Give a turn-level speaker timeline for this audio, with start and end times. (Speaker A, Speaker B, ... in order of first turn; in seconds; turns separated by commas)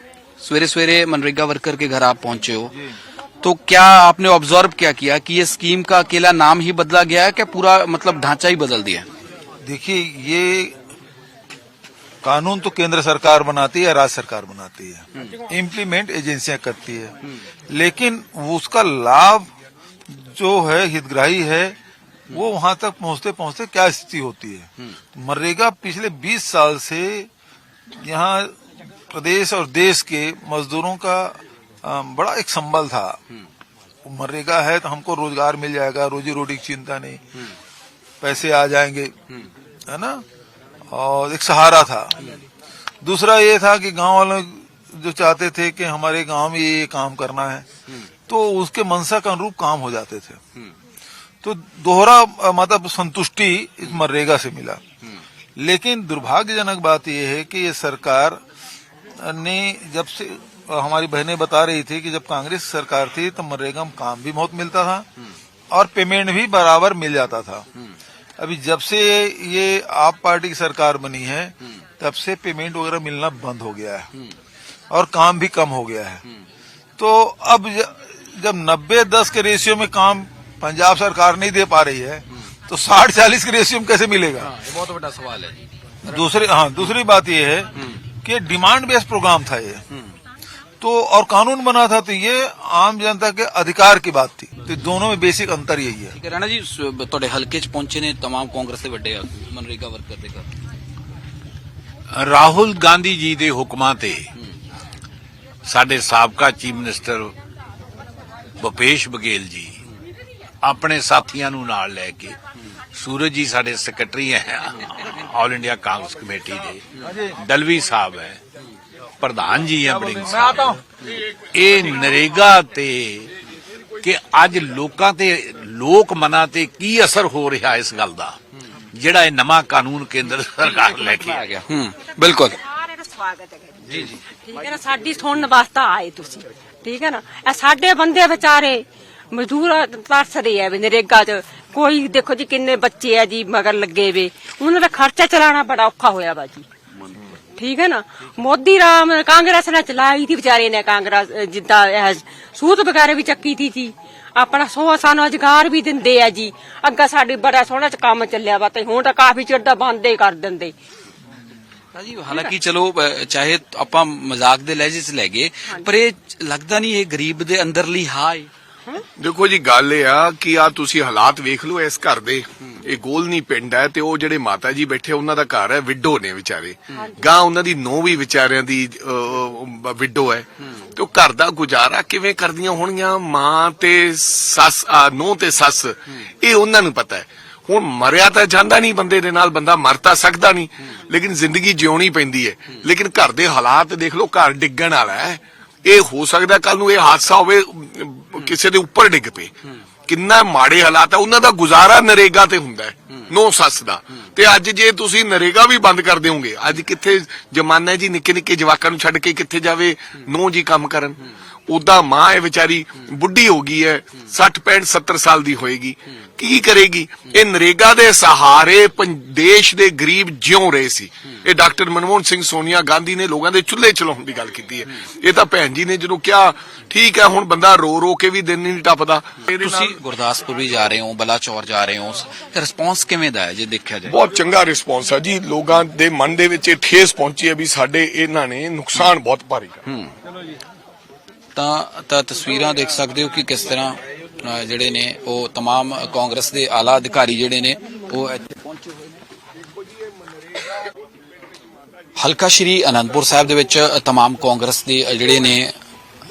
Speaker A: 0.4-2.7, Speaker A: 3.4-9.1, Speaker B: 9.6-10.8, Speaker B: 12.2-17.2, Speaker B: 17.7-19.5, Speaker B: 20.1-21.8, Speaker B: 22.3-27.3, Speaker B: 27.9-33.2, Speaker B: 34.0-37.4, Speaker B: 38.2-39.1, Speaker B: 39.9-40.2, Speaker B: 40.9-42.3, Speaker B: 43.0-47.7, Speaker B: 48.3-50.4, Speaker B: 51.4-54.8, Speaker B: 55.6-58.4, Speaker B: 59.2-65.1, Speaker B: 65.7-67.7, Speaker B: 68.4-74.1, Speaker B: 74.9-76.2, Speaker B: 77.0-84.5, Speaker A: 84.5-85.6, Speaker B: 86.0-89.8, Speaker B: 90.8-96.1, Speaker A: 96.1-100.5, Speaker C: 102.1-104.3, Speaker C: 105.7-107.3, Speaker C: 108.6-109.8, Speaker C: 110.6-112.4, Speaker C: 112.9-118.4, Speaker C: 119.2-123.3, Speaker C: 124.0-128.4, Speaker C: 128.9-131.6, Speaker A: 131.5-132.6, Speaker D: 132.6-146.7, Speaker D: 147.6-160.7, Speaker A: 161.9-168.5, Speaker E: 169.2-199.5, Speaker D: 176.9-177.2, Speaker E: 200.1-229.9, Speaker A: 229.5-234.2, Speaker E: 234.1-239.8, Speaker A: 241.5-248.7, Speaker A: 252.2-255.7